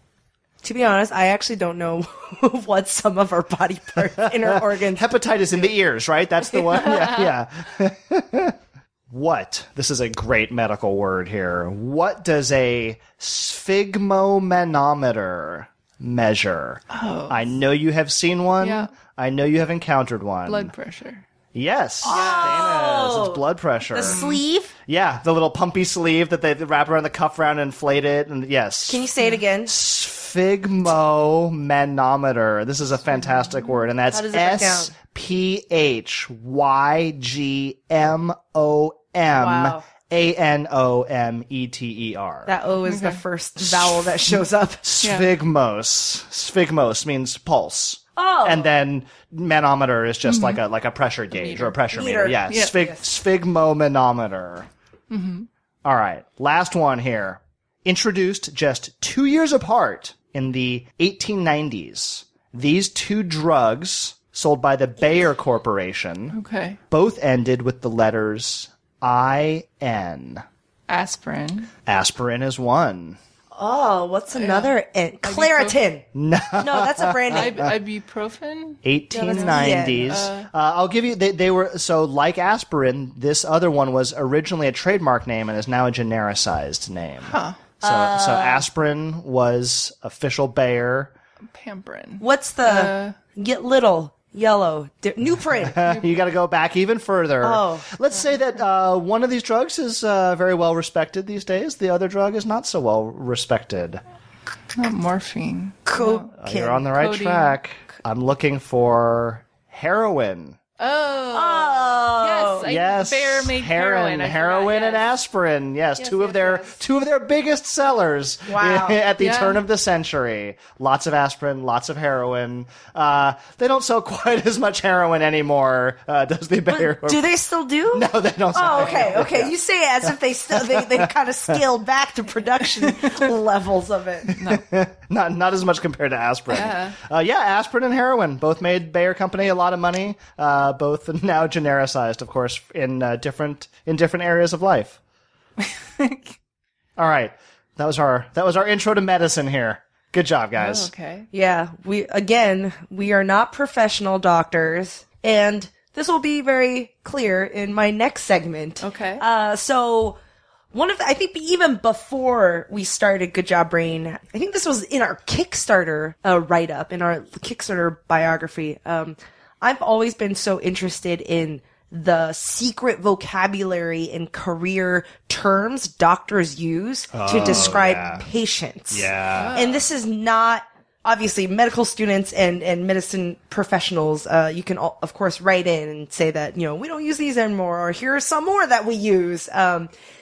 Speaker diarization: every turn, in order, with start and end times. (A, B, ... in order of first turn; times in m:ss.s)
0:00.6-0:05.3 A
0:04.2-0:08.6 B
0:09.1-0:20.7 B
0:16.9-0:17.4 C
0:18.6-0:18.9 C
0:20.5-0:21.3 C
0:21.5-0:24.2 B
0:22.0-0:24.7 A
0:22.1-0:22.7 C
0:24.1-0:24.4 C
0:24.9-0:29.0 B
0:28.9-0:29.7 A
0:29.6-0:42.5 B
0:33.2-0:33.8 C
0:34.1-0:34.9 A
0:39.3-0:39.8 A
0:42.5-0:44.8 A
0:42.9-0:43.2 C
0:43.6-0:44.1 B
0:44.8-0:54.7 B
0:45.0-0:45.3 C
0:48.2-0:48.7 A
0:50.2-0:50.6 C
0:51.3-0:51.8 C
0:51.9-0:53.0 A
0:52.5-0:52.8 C
0:55.1-0:55.5 C
0:55.8-1:06.4 B
1:06.3-1:06.8 C
1:06.9-1:10.4 B
1:10.9-1:11.7 C
1:11.9-1:13.2 B
1:13.5-1:16.0 A
1:14.3-1:15.8 C
1:16.2-1:17.8 B
1:16.6-1:17.6 A
1:17.3-1:20.5 C
1:18.8-1:31.1 B
1:19.1-1:20.2 A
1:27.3-1:27.6 C
1:27.8-1:28.7 A
1:31.5-1:33.2 C
1:32.2-1:35.8 A
1:35.6-1:44.0 B
1:37.4-1:37.9 A
1:44.8-1:46.3 C
1:45.9-1:46.9 A
1:46.4-1:50.6 B
1:46.9-1:47.6 C
1:50.8-1:55.1 C
1:51.3-1:52.6 A
1:52.6-2:07.4 B
1:56.0-1:56.8 C
1:58.5-1:59.0 A
1:59.2-1:59.6 C
2:06.7-2:14.3 A
2:07.9-2:09.5 B
2:08.6-2:09.2 C
2:10.5-2:11.1 B
2:14.3-2:25.0 B
2:14.4-2:14.6 C
2:16.5-2:17.0 C
2:25.6-2:26.4 C
2:27.0-2:30.9 B
2:30.6-2:31.3 C
2:31.3-2:40.2 A
2:38.8-2:39.2 C
2:40.7-3:09.9 A
2:57.1-2:58.3 B
2:58.9-2:59.6 B
2:59.4-2:59.9 C